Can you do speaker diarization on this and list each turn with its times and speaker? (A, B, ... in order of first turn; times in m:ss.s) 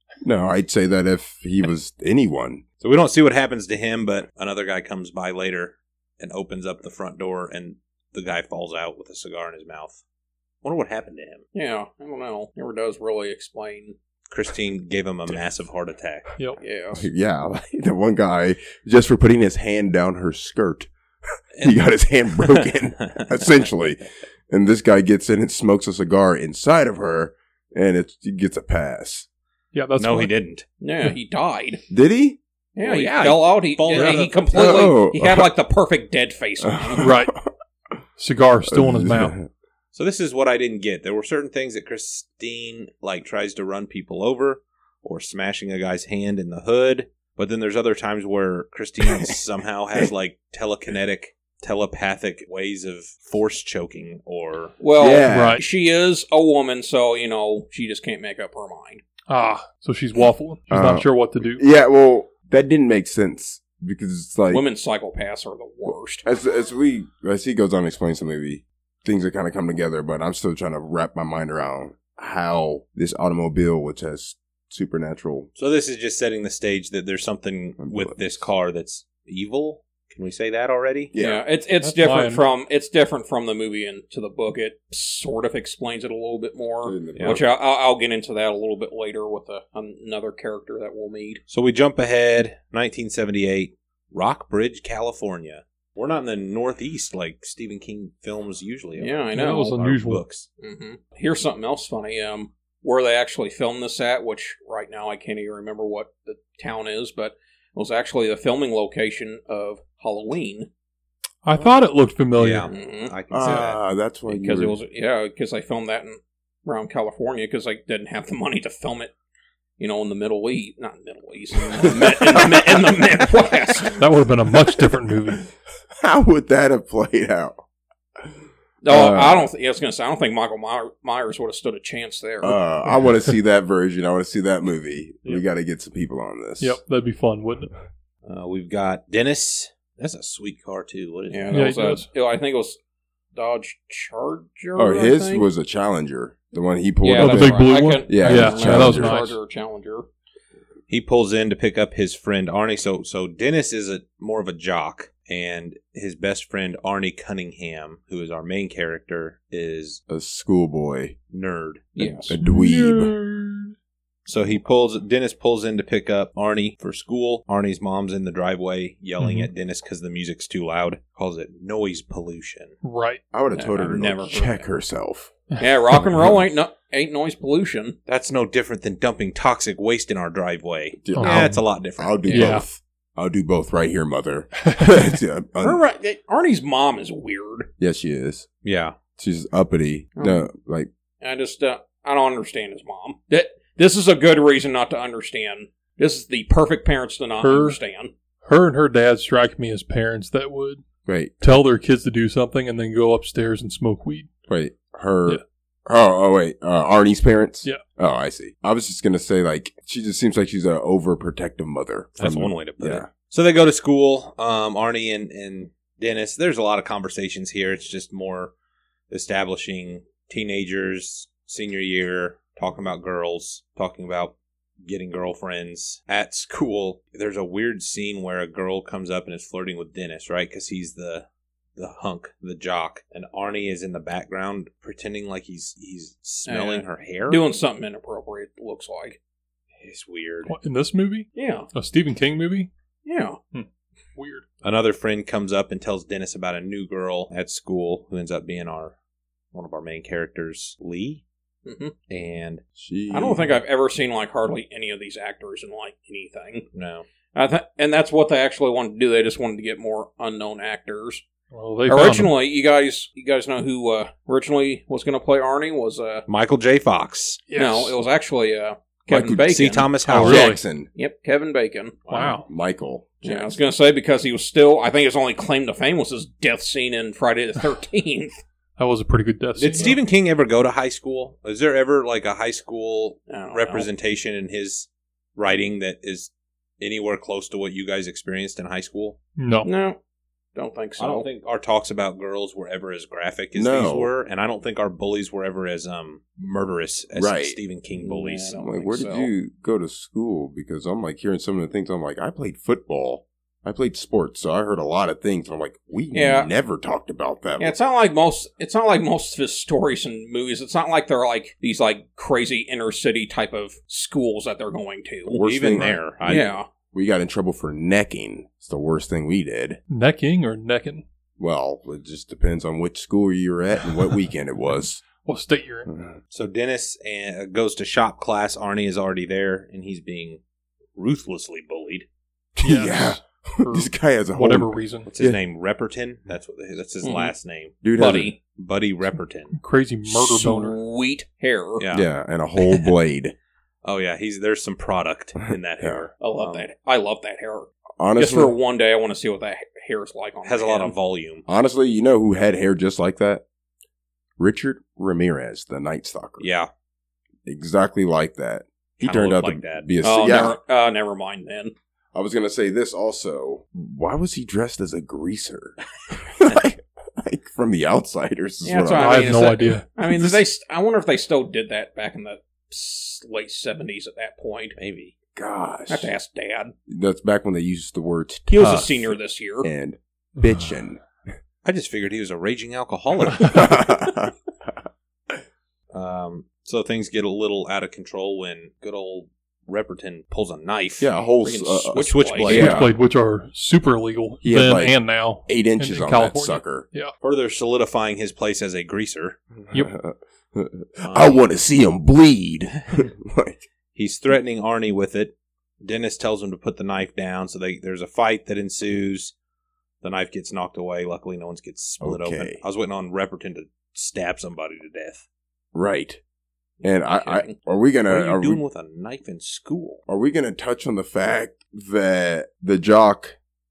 0:00.2-0:02.6 A
0:02.8-0:10.0 B
0:10.6-0:11.4 B
0:11.5-0:14.0 C
0:14.3-0:16.2 B
0:16.6-0:17.1 C
0:16.9-0:20.9 A
0:21.6-0:21.8 B
0:21.6-0:29.3 A
0:22.4-0:23.3 B
0:29.7-0:30.3 D
0:30.0-0:30.6 B
0:30.8-0:31.8 C
0:31.9-0:32.4 A
0:32.8-0:37.1 C
0:32.8-0:34.5 B
0:33.9-0:34.2 D
0:34.5-0:35.5 A
0:36.6-0:37.5 A
0:37.0-0:37.3 D
0:38.2-0:39.4 D
0:38.6-0:39.5 A
0:39.9-0:54.8 B
0:49.0-0:49.4 A
0:54.8-0:59.0 C
0:55.0-0:55.6 A
0:55.3-0:55.6 D
0:59.3-1:01.6 D
1:00.7-1:04.6 A
1:04.5-1:06.2 C
1:05.9-1:15.5 A
1:15.6-1:21.1 B
1:17.8-1:18.4 A
1:21.1-1:21.4 A
1:21.2-1:31.4 C
1:21.8-1:22.4 D
1:26.8-1:27.5 A
1:27.1-1:27.4 B
1:31.5-1:40.5 B
1:39.0-1:39.8 C
1:39.3-1:40.2 D
1:40.6-1:50.7 C
1:51.4-1:52.7 D
1:52.3-1:53.8 B
1:52.7-1:53.1 C
1:53.3-1:54.8 A
1:54.3-1:59.1 C
1:59.8-2:04.0 C
2:01.8-2:02.8 A
2:04.0-2:05.5 D
2:04.6-2:05.4 A
2:06.0-2:07.6 A
2:08.8-2:12.6 C
2:08.9-2:09.5 A
2:12.4-2:16.8 A
2:16.6-2:17.7 D
2:18.2-2:21.7 B
2:21.3-2:22.8 C
2:21.5-2:22.1 D
2:23.3-2:25.5 C
2:24.8-2:29.1 A
2:27.0-2:30.1 C
2:27.2-2:29.4 D
2:30.9-2:40.0 B
2:40.1-2:41.2 A
2:41.3-2:42.1 B
2:42.0-2:42.3 C
2:42.3-2:43.1 A
2:42.4-2:43.7 D
2:44.2-2:52.7 B
2:49.2-2:49.5 D
2:52.8-2:53.2 D
2:53.3-2:55.3 A
2:53.5-2:54.7 C
2:55.6-2:58.0 C
2:58.1-3:02.6 B
3:01.0-3:05.8 A
3:01.1-3:01.6 D
3:02.3-3:02.6 D
3:05.6-3:07.7 C
3:07.8-3:08.5 A
3:08.6-3:09.0 B
3:09.2-3:10.9 A
3:10.2-3:10.5 C
3:11.2-3:18.1 C
3:17.4-3:17.8 D
3:18.4-3:20.8 D
3:21.0-3:21.4 A
3:21.4-3:24.3 D
3:24.5-3:33.1 A
3:32.2-3:38.5 B
3:39.1-3:57.4 B
3:56.5-3:59.2 C
3:59.8-4:00.5 B
4:00.5-4:02.7 D
4:01.3-4:01.7 C
4:03.0-4:03.4 C
4:03.5-4:04.4 D
4:04.6-4:08.9 B
4:09.5-4:11.2 B
4:11.6-4:11.9 C
4:12.1-4:12.6 B
4:12.7-4:13.6 A
4:13.1-4:16.7 C
4:16.7-4:17.0 B
4:17.3-4:21.2 C
4:21.5-4:22.3 D
4:21.9-4:26.2 C
4:26.3-4:27.4 B
4:27.5-4:27.9 D
4:27.5-4:32.4 C
4:29.1-4:29.4 D
4:29.3-4:30.4 B
4:30.1-4:30.6 D
4:30.2-4:30.9 A
4:32.1-4:32.5 D
4:32.5-4:33.6 A
4:33.2-4:38.4 C
4:38.8-4:40.0 D
4:39.6-4:49.2 B
4:43.3-4:43.9 C
4:49.4-4:49.7 D
4:49.6-4:50.0 C
4:50.5-4:51.3 C
4:51.0-4:58.6 B
4:53.5-4:54.1 A
4:57.1-4:57.6 A
4:57.9-4:59.3 C
4:58.5-5:07.8 A
5:06.1-5:06.5 C
5:07.6-5:15.5 C
5:15.3-5:19.8 A
5:15.3-5:16.5 B
5:16.2-5:16.6 C
5:19.9-5:21.0 D
5:21.4-5:25.0 A
5:25.1-5:25.9 D
5:25.9-5:26.2 A
5:26.3-5:30.4 B
5:31.0-5:32.1 B
5:32.6-5:35.4 A
5:32.6-5:35.1 D
5:35.1-5:37.8 B
5:37.0-5:37.3 C
5:37.8-5:38.3 A
5:37.9-5:38.4 C
5:38.6-5:39.6 B
5:39.5-5:40.8 D
5:40.0-5:41.8 C
5:41.8-5:42.1 B
5:41.9-5:43.3 A
5:42.6-5:42.9 B
5:43.8-5:46.7 B
5:45.8-5:46.0 A
5:46.2-5:50.9 C
5:48.0-5:48.5 A
5:50.4-5:51.4 B
5:51.5-5:53.4 A
5:54.4-5:56.5 A
5:56.4-5:56.7 B
5:57.4-6:00.6 A
5:59.0-5:59.9 B
6:00.0-6:01.7 C
6:02.1-6:09.5 A
6:08.6-6:14.7 C
6:08.9-6:09.9 D
6:14.8-6:15.1 B
6:15.3-6:16.1 A
6:15.9-6:16.7 C
6:16.9-6:18.8 A
6:18.5-6:19.7 C
6:19.6-6:21.0 A
6:21.6-6:23.7 B
6:23.4-6:24.7 A
6:25.9-6:31.1 B
6:31.0-6:32.9 A
6:31.4-6:32.8 C
6:31.9-6:32.9 B
6:32.4-6:37.1 D
6:34.4-6:36.9 A
6:37.2-6:39.4 B
6:39.6-6:43.7 A
6:41.0-6:41.4 B
6:43.9-6:49.3 B
6:50.0-6:55.2 B
6:52.0-6:52.6 A
6:55.7-6:56.2 A
6:56.8-6:58.6 A
6:56.8-6:57.5 C
6:58.1-7:00.0 B
7:00.1-7:03.4 A